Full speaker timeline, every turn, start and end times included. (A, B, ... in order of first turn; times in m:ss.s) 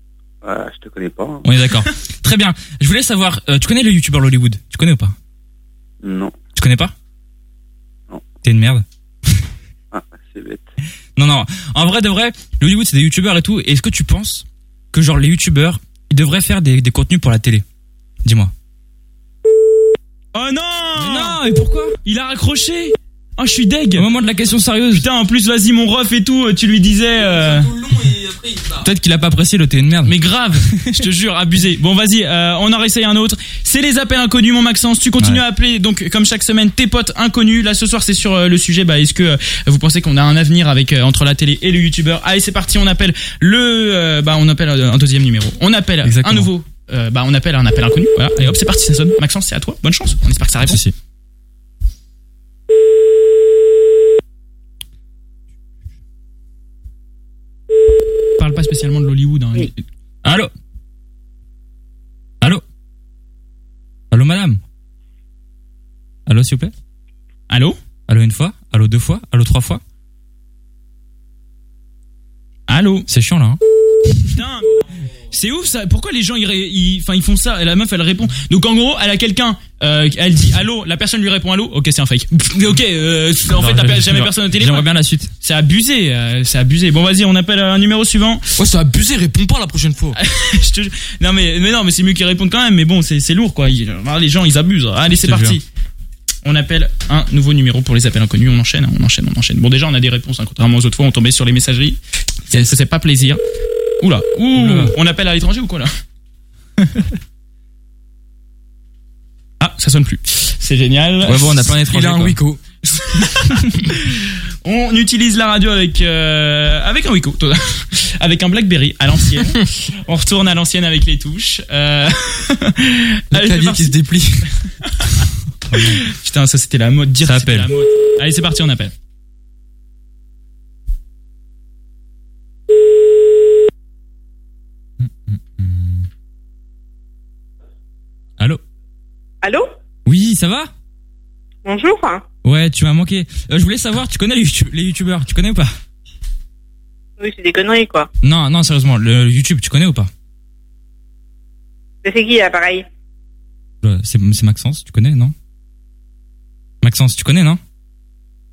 0:00.4-0:01.4 A
0:01.4-0:05.1 B
0:06.0-0:06.4 A
0:06.5-0:06.9 B
0:08.4-0:08.8 B
0:09.9-0:10.7 A
0:11.2-0:17.6 B
0:18.2-0:18.5 B
0:20.3-0:21.4 C
0:21.0-0:21.9 B
0:22.0-0:24.1 C
0:24.0-0:25.0 B
0:24.9-0:27.7 C
0:27.2-0:28.9 D
0:28.8-0:31.0 B
0:30.0-0:50.8 C
0:46.0-0:46.5 B
0:50.6-0:50.9 B
0:58.4-0:59.8 C
1:00.2-1:00.5 B
1:04.1-1:04.6 B
1:06.3-1:06.7 B
1:07.5-1:07.8 C
1:08.1-1:09.8 B
1:12.7-1:13.1 C
1:13.1-1:13.6 B
1:14.2-1:28.4 C
1:23.5-1:25.3 B
1:28.6-1:30.2 D
1:30.1-1:35.6 C
1:36.4-1:42.0 C
1:42.5-1:43.4 C
1:44.0-1:45.9 C
1:44.5-1:44.9 B
1:49.6-1:51.5 C
1:51.2-1:52.6 D
1:51.3-1:52.4 B
1:52.9-2:03.9 C
2:03.3-2:04.5 D
2:05.7-2:06.0 B
2:05.7-2:08.9 C
2:07.2-2:07.7 B
2:15.0-2:16.1 B
2:19.4-2:19.7 E
2:20.0-2:20.7 B
2:21.6-2:22.2 E
2:22.4-2:25.7 B
2:27.2-2:28.1 E
2:28.2-2:30.1 B
2:32.0-2:32.8 E
2:33.8-2:35.3 B
2:36.8-2:37.6 B